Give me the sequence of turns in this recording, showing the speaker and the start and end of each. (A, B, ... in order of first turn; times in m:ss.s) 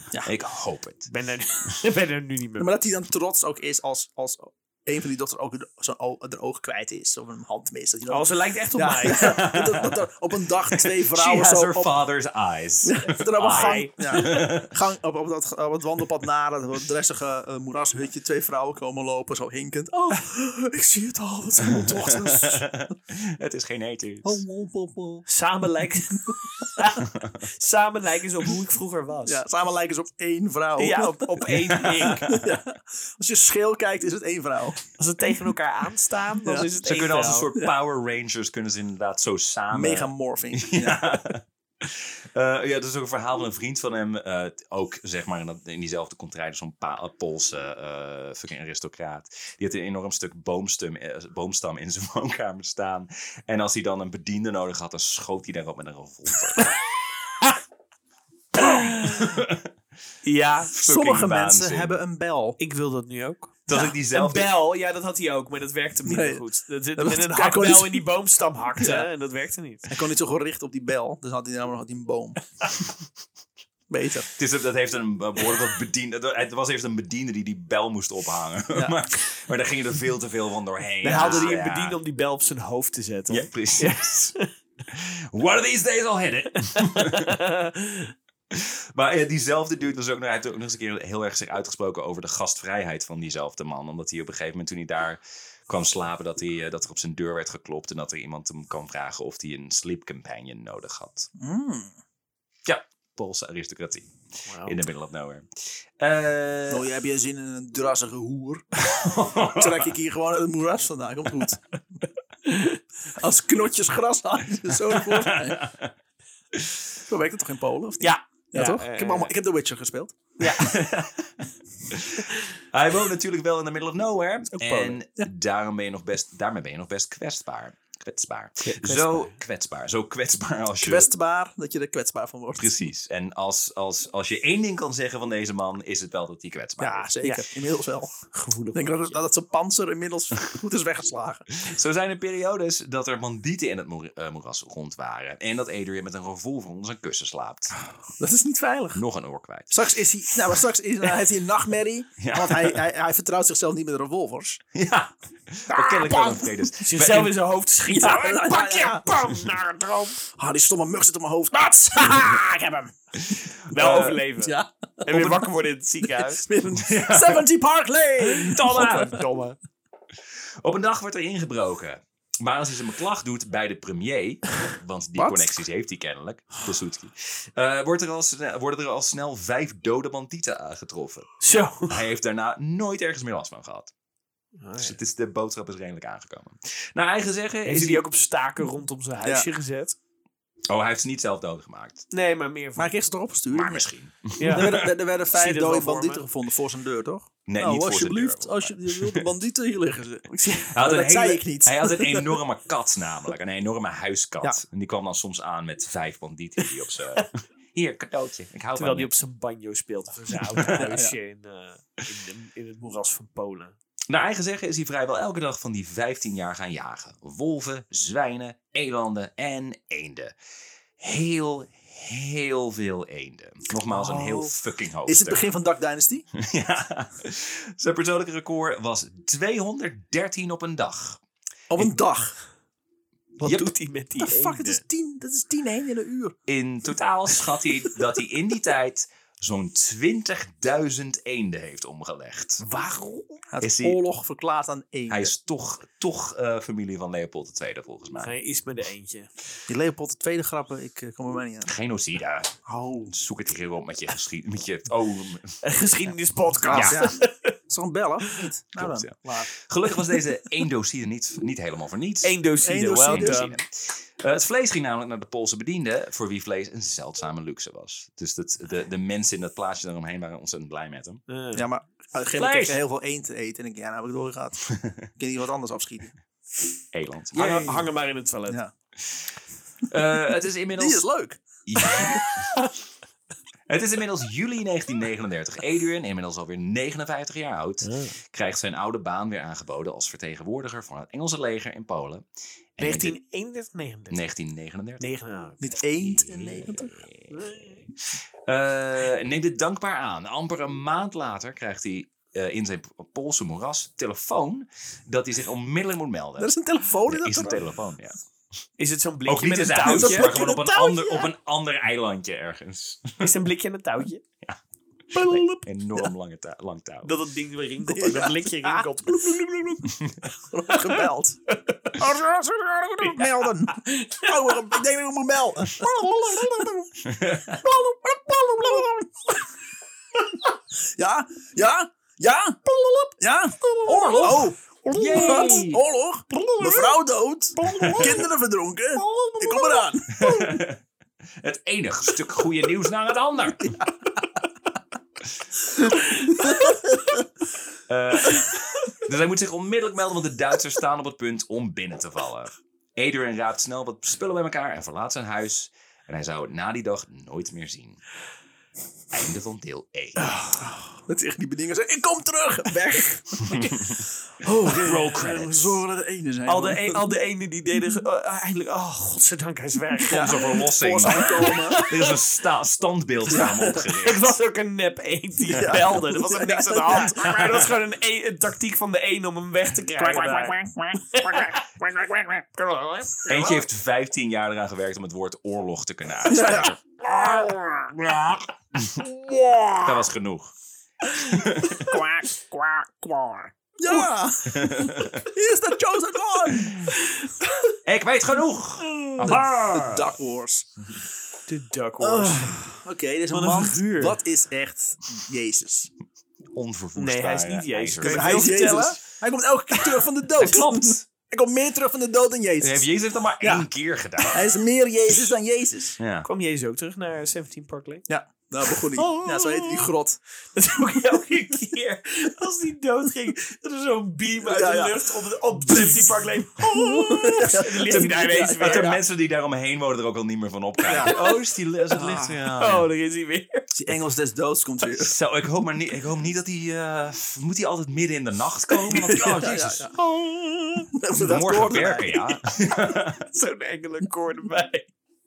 0:00.2-0:01.1 A
0:01.1-0:02.7 B
0:02.6-0:12.0 C
0:08.1-0:09.5 B
0:09.1-0:10.0 A
0:10.9-0:14.8 A
0:12.8-0:22.6 C
0:13.4-0:14.3 B
0:21.7-0:24.4 A
0:24.2-0:25.2 C
0:25.3-0:29.4 B
0:26.2-0:26.6 C
0:27.1-0:27.4 A
0:29.2-0:34.8 C
0:30.8-0:32.4 B
0:31.5-0:32.5 A
0:35.0-0:37.5 B
0:36.4-0:36.7 C
0:36.8-0:56.7 A
0:39.7-0:41.1 C
0:58.5-0:59.7 A
0:58.6-0:59.4 B
1:00.2-1:00.7 B
1:00.7-1:02.0 A
1:00.8-1:02.6 C
1:02.6-1:09.9 B
1:03.7-1:04.5 A
1:06.0-1:06.4 C
1:07.0-1:08.0 C
1:08.8-1:09.0 C
1:09.9-1:12.4 C
1:13.9-1:14.3 C
1:14.4-1:22.0 A
1:21.0-1:24.5 B
1:21.0-1:21.6 C
1:23.3-1:24.3 A
1:24.9-1:27.4 A
1:26.8-1:28.1 B
1:28.5-1:41.3 A
1:41.4-1:41.9 C
1:42.6-1:46.8 A
1:44.5-1:44.8 B
1:46.7-1:48.6 C
1:48.8-1:49.9 A
1:49.4-1:51.6 C
1:53.2-1:55.6 C
1:54.8-1:55.9 A
1:56.5-1:56.8 A
1:57.1-2:00.2 C
1:58.0-1:59.3 B
2:00.4-2:00.8 B
2:00.4-2:11.1 A
2:04.6-2:04.9 B
2:04.6-2:05.3 C
2:08.6-2:09.3 B
2:10.8-2:12.7 C
2:12.6-2:17.1 A
2:16.8-2:21.5 C
2:18.2-2:19.2 B
2:21.6-2:27.7 A
2:28.2-2:29.0 C
2:28.9-2:29.8 A
2:29.7-2:34.6 C
2:32.2-2:32.8 A
2:34.7-2:37.3 A
2:35.7-2:36.5 C
2:36.8-2:40.2 B
2:37.9-2:39.1 C
2:40.3-2:42.9 C
2:43.2-2:44.3 A
2:43.6-2:46.4 B
2:44.4-2:45.4 C
2:46.2-2:48.9 C
2:46.8-2:47.4 A
2:48.4-2:49.6 B
2:48.4-2:49.2 A
2:50.6-3:01.3 A
2:55.2-2:55.6 C
3:01.4-3:02.0 B
3:01.9-3:03.9 A
3:04.6-3:05.0 B
3:04.8-3:08.0 A
3:07.6-3:10.0 B
3:10.7-3:12.0 A
3:12.1-3:12.9 B
3:12.8-3:13.9 C
3:13.5-3:14.9 A
3:14.4-3:16.2 B
3:14.4-3:22.4 C
3:17.5-3:19.3 A
3:20.7-3:29.1 A
3:26.6-3:27.3 B
3:28.8-3:33.7 B
3:30.3-3:31.0 A
3:30.7-3:31.1 C
3:34.1-3:40.3 A
3:41.0-3:45.4 A
3:43.9-3:46.2 C
3:46.3-3:51.2 A
3:51.7-3:52.4 C
3:53.4-3:54.8 B
3:53.4-3:53.7 A
3:54.2-3:56.4 C
3:56.5-4:02.6 A
4:02.6-4:03.4 B
4:03.5-4:05.3 C
4:03.6-4:04.0 A
4:05.1-4:08.3 A
4:08.2-4:09.3 B
4:09.7-4:11.7 C
4:11.6-4:12.6 A
4:12.6-4:13.1 C
4:13.1-4:16.1 A
4:15.6-4:17.5 B
4:16.6-4:19.5 C
4:16.7-4:17.1 A
4:18.8-4:22.4 A
4:22.2-4:23.6 B
4:22.6-4:23.4 C
4:23.0-4:31.2 A
4:31.3-4:31.7 B
4:31.5-4:36.1 C
4:32.3-4:32.8 A
4:36.9-4:37.9 A
4:37.3-4:38.6 B
4:38.5-4:38.7 C
4:39.0-4:39.3 A
4:39.9-4:41.0 A
4:40.8-4:42.2 C
4:41.6-4:42.5 A
4:42.2-4:42.7 B
4:43.7-4:52.2 A
4:47.8-4:48.1 B
4:52.8-4:53.2 A
4:52.8-4:54.2 B
4:54.1-4:55.1 A
4:55.0-4:55.8 B
4:55.6-4:57.0 C
4:56.0-4:57.5 A
4:57.3-4:57.9 B
4:58.1-5:06.5 A
5:06.4-5:07.6 C
5:07.0-5:08.2 A
5:08.8-5:10.4 B
5:09.2-5:13.3 A
5:09.9-5:11.3 C
5:13.2-5:14.2 B
5:15.1-5:15.7 C
5:15.2-5:17.2 A
5:17.0-5:19.9 B
5:17.8-5:19.9 C
5:20.5-5:21.4 C
5:20.7-5:22.1 B
5:22.0-5:29.1 C
5:23.0-5:24.8 B
5:27.0-5:27.6 A
5:31.0-5:40.6 C
5:33.8-5:35.8 A
5:35.0-5:35.6 B
5:36.5-5:36.9 B
5:37.6-5:38.2 A
5:37.6-5:38.1 B
5:39.0-5:39.9 B
5:40.1-5:40.8 A
5:41.4-5:43.8 A
5:46.2-5:46.7 B
5:46.3-5:47.2 C
5:47.9-5:58.0 A
5:59.1-6:00.3 A
6:00.2-6:00.6 B
6:00.6-6:07.0 C
6:03.5-6:04.0 A
6:04.6-6:05.8 A
6:06.4-6:12.2 B
6:10.1-6:14.4 A
6:10.1-6:11.8 C
6:13.3-6:13.7 C
6:13.4-6:20.6 B
6:15.4-6:17.2 C
6:16.9-6:17.7 A
6:20.0-6:21.6 C
6:21.1-6:23.6 B
6:23.3-6:26.8 A
6:26.2-6:28.2 C
6:27.2-6:27.5 B
6:29.2-6:29.9 C
6:29.8-6:30.5 A
6:31.1-6:32.0 A
6:31.8-6:32.3 C
6:31.8-6:33.5 B
6:33.8-6:36.8 C
6:34.4-6:35.2 A
6:36.9-6:37.5 B
6:37.8-6:40.1 A
6:39.0-6:39.4 B
6:39.2-6:40.7 C
6:41.5-6:42.8 B
6:42.0-6:45.9 C
6:43.3-6:44.2 B
6:46.5-6:48.6 A
6:46.9-6:49.0 B
6:48.0-6:52.9 C
6:50.4-6:51.0 A
6:50.4-6:50.8 B
6:52.6-6:54.6 A
6:53.4-6:53.7 C
6:54.2-6:56.0 C
6:56.0-6:56.3 A
6:56.2-6:58.0 B
6:58.1-7:00.2 C
6:58.7-6:59.9 B
7:00.5-7:09.0 B
7:04.4-7:05.2 C
7:06.6-7:08.9 C
7:08.6-7:12.9 A
7:10.9-7:11.2 C
7:10.9-7:11.4 B
7:11.9-7:12.4 C
7:12.3-7:13.7 B
7:13.7-7:15.1 C
7:14.9-7:19.9 A
7:18.9-7:19.4 B
7:18.9-7:22.3 C
7:21.2-7:23.3 A
7:23.3-7:24.9 B